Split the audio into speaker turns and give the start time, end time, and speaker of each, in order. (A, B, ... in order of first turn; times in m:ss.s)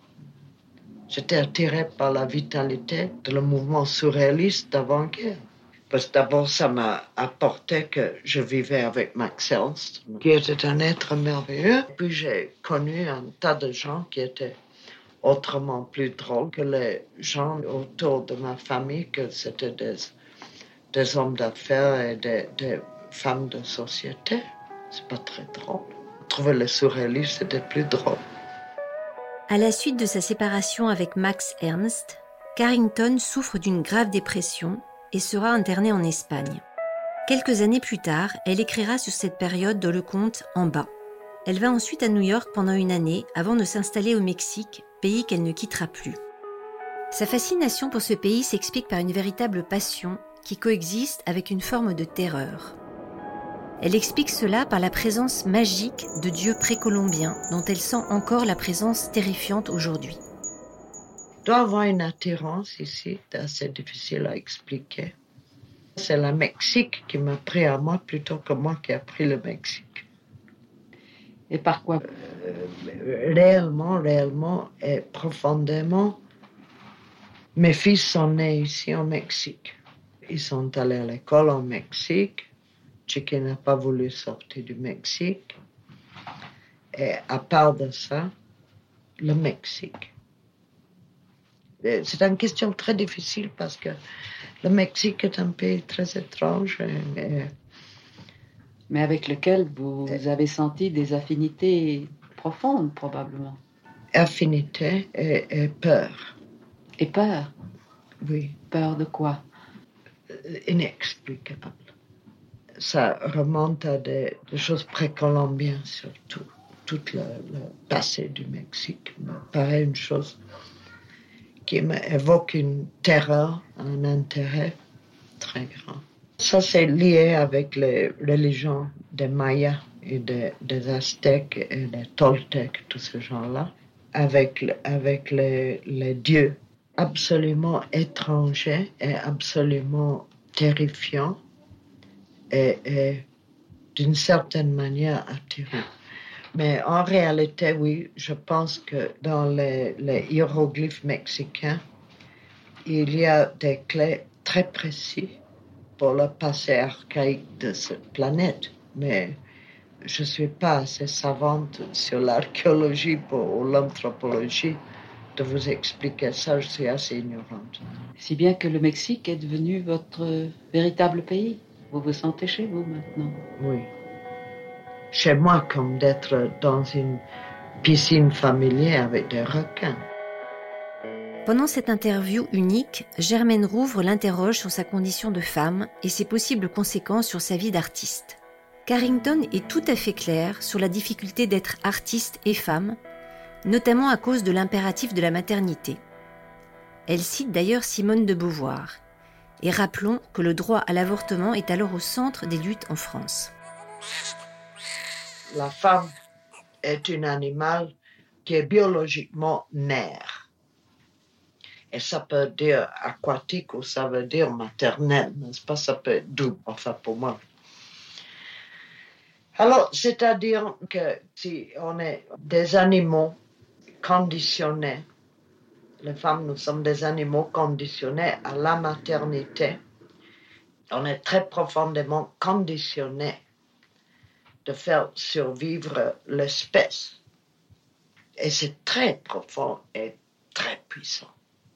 0:01.1-0:14.5 A
0:15.2-0:20.1 A
0:20.9-0:28.2 A
0:29.5-0:36.6 B
0:37.3-0:40.9 B
0:41.4-0:46.2 B
0:47.1-0:52.8 B
0:53.8-1:00.2 B
1:01.4-1:05.1 A
1:06.0-1:10.0 A
1:11.5-1:12.0 C
1:12.0-1:16.2 A
1:17.6-1:19.8 A
1:20.3-1:22.4 A
1:23.1-1:25.5 A
1:26.9-1:28.3 A
1:29.2-1:30.1 A
1:31.8-1:34.0 A
1:34.6-1:37.5 A
1:38.9-1:43.6 C
1:44.1-1:46.3 A
1:47.0-1:47.5 C
1:48.2-1:48.6 A
1:48.7-1:49.4 C
1:50.3-1:51.9 A
1:52.8-2:00.4 A
2:01.7-2:04.8 A
2:05.4-2:21.4 A
2:22.5-2:23.2 A
2:24.0-2:25.9 A
2:26.5-2:31.8 A
2:32.8-2:35.4 A
2:36.0-2:39.4 A
2:40.0-2:44.8 A
2:45.4-2:48.0 A
2:48.2-2:53.4 C
2:53.6-2:53.9 A
2:55.1-2:57.2 A
2:57.8-3:00.0 A
3:01.5-3:13.0 B
3:13.6-3:16.0 B
3:17.1-3:19.0 B
3:19.6-3:23.5 B
3:25.5-3:26.1 A
3:26.8-3:27.9 A
3:28.4-3:30.5 A
3:31.9-3:37.4 A
3:39.6-3:43.4 A
3:44.0-3:45.0 A
3:46.0-3:49.8 A
3:50.9-3:53.4 A
3:54.6-3:57.2 A
3:58.4-4:01.3 A